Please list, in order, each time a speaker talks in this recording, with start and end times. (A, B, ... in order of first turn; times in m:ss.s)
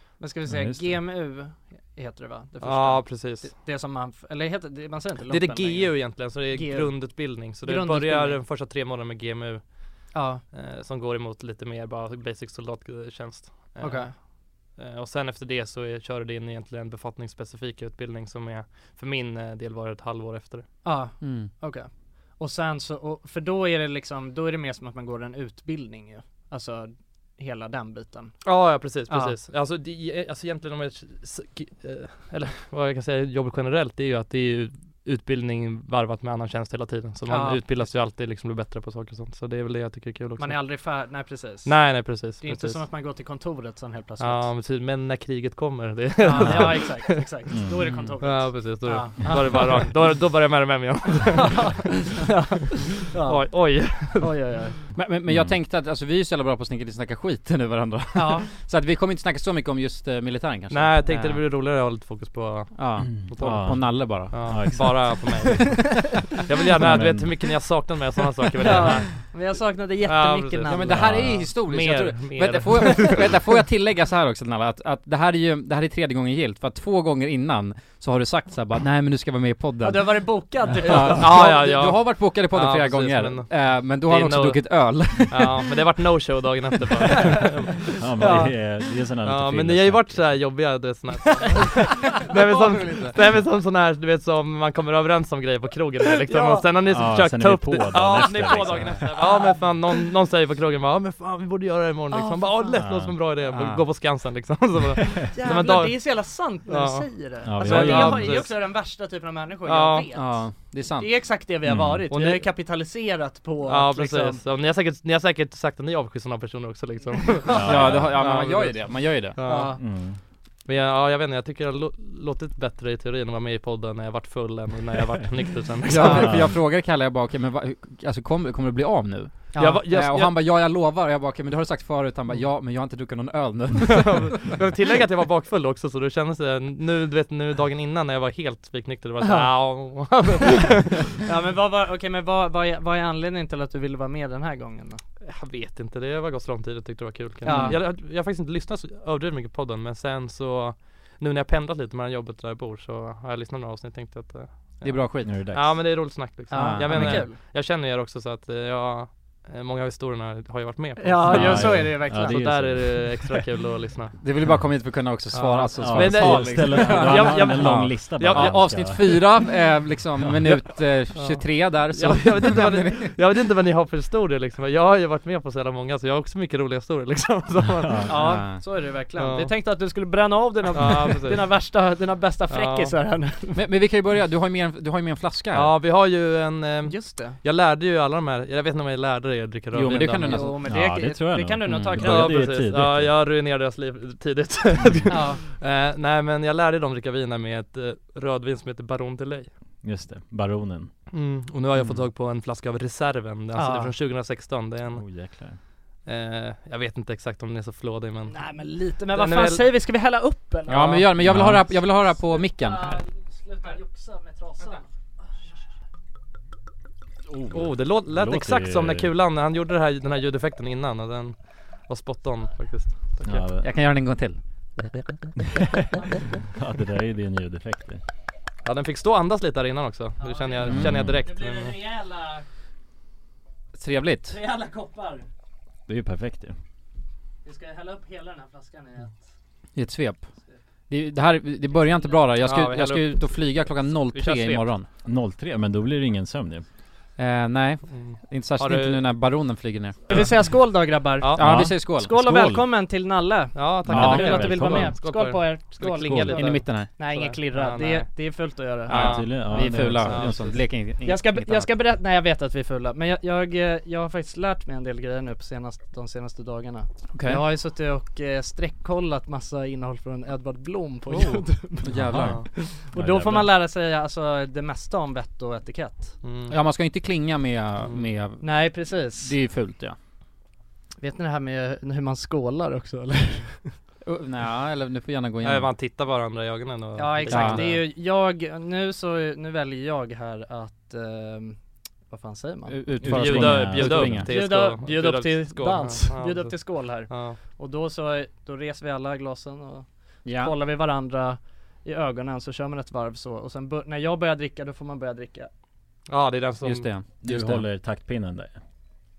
0:00.2-0:08.4 A
0:00.5-0:01.0 B
0:02.6-0:03.5 C
0:05.3-0:20.7 C
0:10.1-0:10.4 A
0:13.8-0:14.1 A
0:20.8-0:28.4 A
0:21.2-0:21.5 D
0:28.4-0:40.6 C
0:29.1-0:29.3 A
0:37.3-0:37.9 A
0:40.4-0:44.5 A
0:41.6-0:42.8 C
0:44.2-0:47.2 C
0:46.2-0:49.9 A
0:46.4-0:46.8 B
0:47.5-0:48.2 B
0:48.2-0:51.9 C
0:51.3-0:54.8 A
0:53.2-0:54.3 C
0:54.9-1:01.4 D
0:55.3-0:55.6 B
0:58.1-0:58.5 A
1:00.7-1:03.5 C
1:02.8-1:04.6 D
1:03.0-1:05.8 B
1:04.3-1:09.3 C
1:06.8-1:07.5 B
1:08.6-1:11.0 A
1:10.0-1:13.4 C
1:10.6-1:20.2 D
1:10.9-1:11.5 B
1:19.8-1:21.8 A
1:20.8-1:25.7 D
1:21.0-1:24.6 C
1:25.2-1:28.5 C
1:28.0-1:30.4 B
1:28.2-1:28.5 A
1:29.2-1:46.0 C
1:32.3-1:33.1 A
1:36.1-1:36.7 A
1:36.9-1:39.0 B
1:38.2-1:39.6 A
1:42.1-1:42.8 A
1:42.8-1:43.2 B
1:43.5-1:43.8 D
1:45.3-1:54.4 A
1:46.7-1:48.5 C
1:47.4-1:48.4 B
1:49.6-1:50.1 C
1:50.1-1:51.1 D
1:51.6-1:52.0 B
1:52.1-1:52.5 C
1:53.6-1:59.8 C
1:57.6-1:59.4 D
1:57.6-1:58.2 B
1:59.4-1:59.8 A
1:59.8-2:00.2 B
2:00.6-2:06.3 C
2:05.9-2:14.5 D
2:06.1-2:06.5 B
2:09.5-2:09.8 A
2:09.6-2:10.4 C
2:13.8-2:21.1 C
2:19.2-2:19.5 A
2:21.2-2:25.0 A
2:25.2-2:44.2 C
2:27.4-2:27.8 A
2:27.4-2:27.8 D
2:34.8-2:35.4 D
2:35.2-2:35.8 B
2:36.5-2:37.4 A
2:36.5-2:37.2 D
2:41.0-2:42.5 A
2:41.3-2:43.1 B
2:44.2-2:53.1 D
2:45.3-2:49.2 C
2:45.8-2:49.3 B
2:50.2-2:50.5 B
2:51.1-2:58.1 C
2:57.7-2:58.2 B
2:58.0-3:03.6 A
2:58.1-2:58.6 D
2:59.2-2:59.5 C
3:00.7-3:01.5 C
3:02.5-3:02.9 C
3:03.6-3:05.8 D
3:05.5-3:10.5 C
3:06.8-3:07.4 A
3:09.7-3:10.6 D
3:10.2-3:12.4 A
3:10.6-3:13.1 B
3:11.9-3:19.5 C
3:15.1-3:15.4 A
3:19.8-3:20.9 B
3:21.1-3:25.0 C
3:23.6-3:23.9 A
3:24.9-3:25.6 B
3:26.0-3:28.4 C
3:28.3-3:31.2 A
3:29.1-3:29.7 C
3:30.7-3:33.0 D
3:31.2-3:31.7 B
3:32.3-3:34.8 A
3:37.3-3:39.1 B
3:37.5-3:43.4 C
3:43.2-3:43.7 B
3:43.6-3:45.0 D
3:46.5-3:48.0 B
3:48.6-3:51.8 C
3:50.2-3:52.4 A
3:50.6-3:51.2 B
3:53.8-3:54.4 D
3:54.3-3:55.2 A
3:55.9-3:56.6 B
3:57.4-3:59.2 A
3:59.8-4:00.2 D
4:00.9-4:04.9 D
4:01.8-4:02.2 A
4:02.4-4:03.2 C
4:04.1-4:04.7 C
4:05.0-4:06.6 B
4:07.2-4:10.0 D
4:07.9-4:09.0 C
4:10.1-4:19.2 A
4:11.2-4:11.6 C
4:11.4-4:12.6 D
4:11.4-4:11.8 B
4:13.5-4:18.1 C
4:13.9-4:14.9 B
4:13.9-4:14.8 D
4:16.2-4:16.9 D
4:18.9-4:20.6 C
4:18.9-4:20.4 B
4:18.9-4:21.7 D
4:21.0-4:36.1 A
4:27.1-4:27.4 D
4:31.2-4:32.4 D
4:31.9-4:33.5 B
4:32.2-4:32.4 C
4:36.2-4:36.5 C
4:36.5-4:38.7 D
4:38.4-4:39.4 A
4:39.2-4:39.9 D
4:41.0-4:43.7 A
4:44.0-4:45.7 D
4:45.4-4:47.8 C
4:47.0-4:51.6 A
4:47.3-4:47.8 D
4:52.1-4:52.8 A
4:52.7-4:54.3 D
4:53.0-4:54.3 B
4:53.0-4:57.4 C
4:54.2-5:05.5 A
5:00.2-5:00.6 D
5:06.1-5:06.9 C
5:06.6-5:07.6 D
5:07.2-5:08.6 B